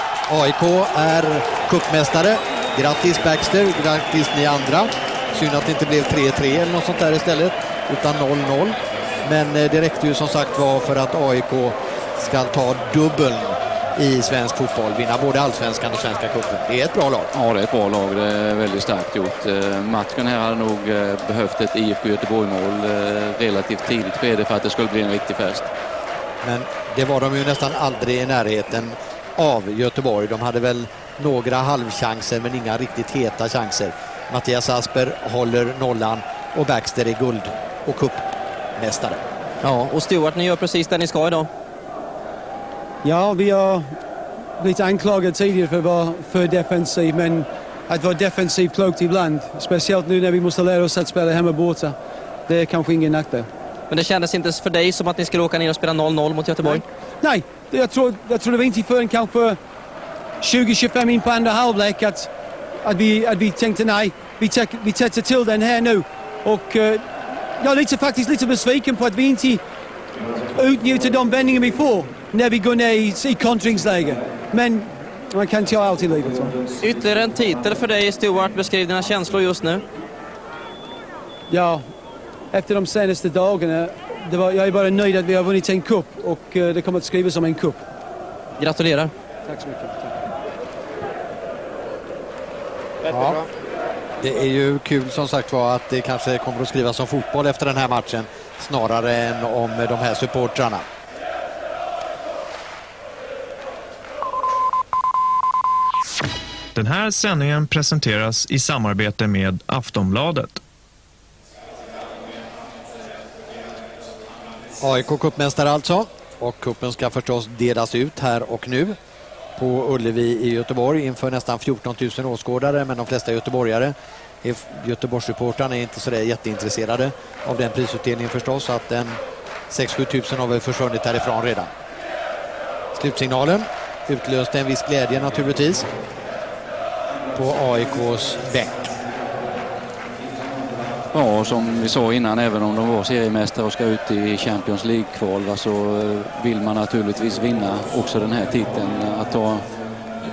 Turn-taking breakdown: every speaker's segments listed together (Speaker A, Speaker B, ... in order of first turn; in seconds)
Speaker A: 0.3-17.3, 26.4-38.3, 38.8-39.2, 93.1-93.4, 94.2-100.8, 114.8-119.0, 119.6-131.7, 132.9-135.9, 137.4-138.9
Speaker B: 17.3-25.7, 141.1-149.7
Speaker C: 39.6-41.5, 53.9-56.8, 76.8-79.8, 88.6-89.1
Speaker D: 43.0-43.8, 44.6-52.0, 52.5-53.5, 57.2-59.6, 60.4-62.3, 62.8-67.0, 67.6-69.6, 70.6-76.6, 81.5-81.8, 82.5-87.8, 89.5-90.1
Speaker E: 106.8-110.6